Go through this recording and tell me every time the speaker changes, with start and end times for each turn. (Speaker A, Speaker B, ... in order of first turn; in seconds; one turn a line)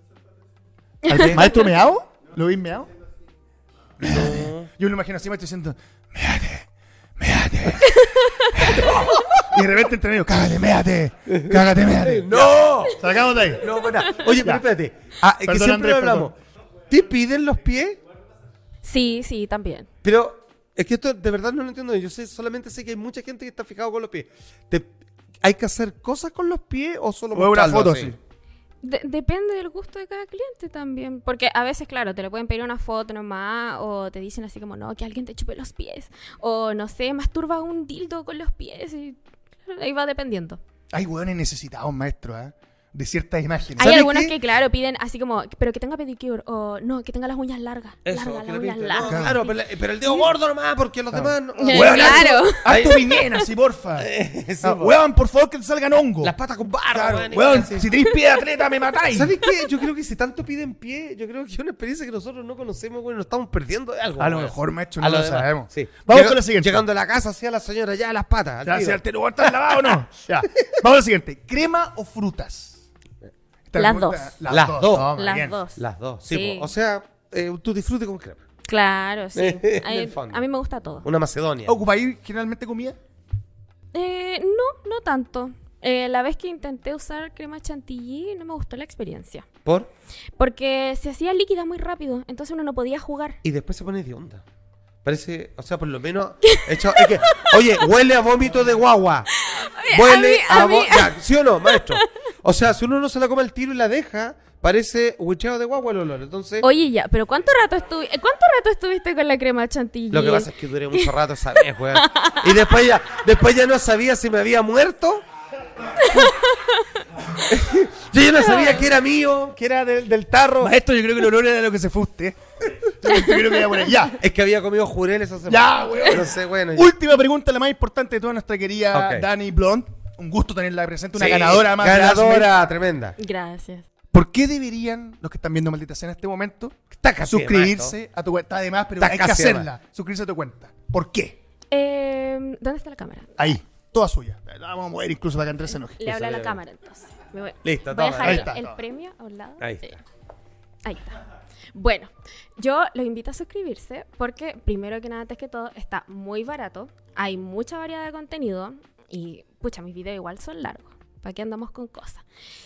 Speaker A: 1.1-1.7
Speaker B: 1.1-1.4
Speaker C: 1.1-2.9
Speaker C: 4.0-6.7
Speaker B: 4.0-4.7
Speaker C: 7.2-13.7
Speaker A: 8.0-8.4
Speaker B: 8.6-9.5
Speaker B: 11.3-16.4
Speaker C: 14.4-14.6
Speaker C: 15.4-16.3
Speaker B: 16.9-18.0
Speaker A: 18.8-19.9
Speaker B: 20.0-24.9
Speaker B: 25.4-28.1
Speaker C: 27.3-28.2
Speaker A: 28.8-40.6
Speaker C: 40.9-44.4
Speaker B: 43.8-44.4
Speaker A: 43.8-50.3
Speaker B: 48.0-53.1
Speaker C: 49.0-49.4
Speaker C: 51.1-54.1
Speaker A: 51.6-52.7
Speaker B: 54.0-55.0
Speaker C: 54.6-56.3
Speaker B: 56.2-57.9
Speaker C: 56.9-59.3
Speaker B: 59.1-70.0
Speaker C: 64.2-66.8
Speaker C: 68.7-72.8
Speaker C: 73.7-75.6
Speaker A: 73.8-74.3
Speaker B: 74.5-75.1
Speaker A: 75.0-76.7
Speaker B: 75.8-78.4
Speaker A: 78.7-81.1
Speaker B: 79.3-80.4
Speaker B: 81.0-81.8
Speaker C: 81.7-83.0
Speaker A: 83.9-89.5
Speaker B: 89.7-89.9
Speaker A: 90.4-93.4
Speaker B: 93.4-94.4
Speaker B: 95.0-99.3
Speaker A: 96.5-97.5
Speaker A: 99.5-101.2
Speaker B: 99.9-106.7
Speaker A: 101.7-102.0
Speaker A: 106.6-111.1
Speaker B: 110.1-115.2
Speaker A: 112.0-112.5
Speaker A: 116.1-116.8
Speaker B: 117.5-120.7
Speaker A: 118.5-118.8
Speaker C: 120.6-124.2
Speaker A: 123.1-123.4
Speaker B: 124.2-126.9
Speaker C: 125.5-132.6
Speaker B: 128.9-129.3
Speaker B: 131.2-133.2
Speaker A: 133.2-133.9
Speaker C: 134.1-141.4
Speaker B: 136.9-137.9
Speaker B: 139.0-139.7
Speaker A: 141.7-143.4
Speaker C: 143.4-146.1
Speaker A: 146.0-150.0
Speaker B: 146.0-146.6
Speaker B: 147.6-148.5
Speaker C: 148.2-148.8
Speaker B: 149.6-150.0
Speaker A: 150.8-162.2